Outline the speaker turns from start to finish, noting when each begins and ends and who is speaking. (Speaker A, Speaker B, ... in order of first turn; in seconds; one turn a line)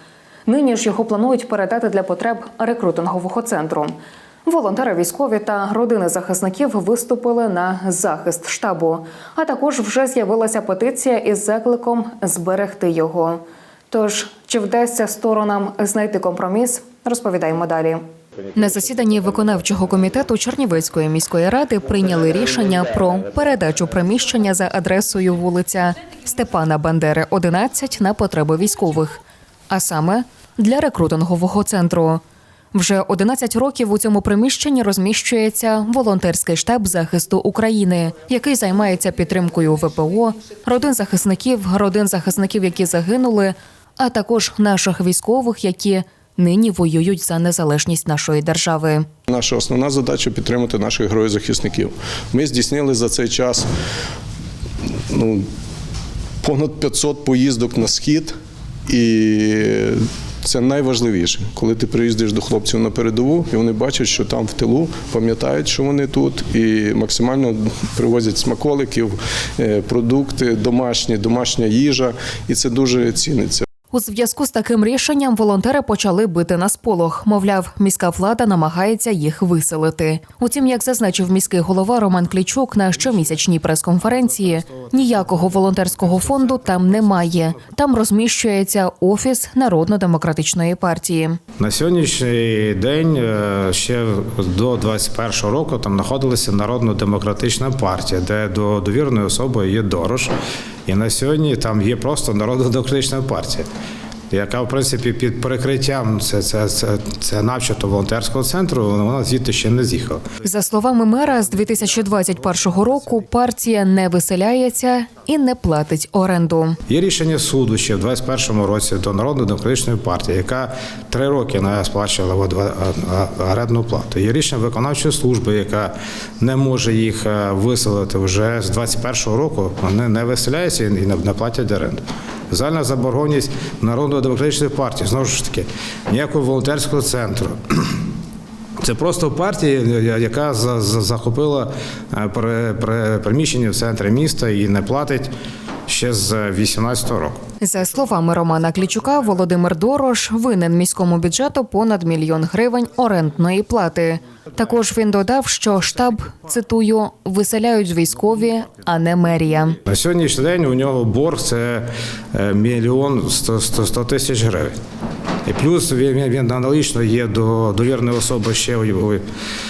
Speaker A: 0.5-3.9
Speaker A: 4.5-18.0
Speaker A: 18.5-32.2
Speaker A: 32.7-49.1
Speaker B: 49.3-53.7
Speaker B: 55.1-55.5
Speaker B: 56.4-58.3
Speaker B: 58.9-73.7
Speaker A: 73.9-91.4
Speaker C: 91.6-100.3
Speaker C: 100.9-103.7
Speaker C: 104.3-110.2
Speaker A: 110.4-116.8
Speaker C: 116.9-138.0
Speaker C: 138.8-145.3
Speaker C: 145.9-147.4
Speaker A: 147.6-159.8
Speaker C: 159.8-164.8
Speaker C: 165.4-169.2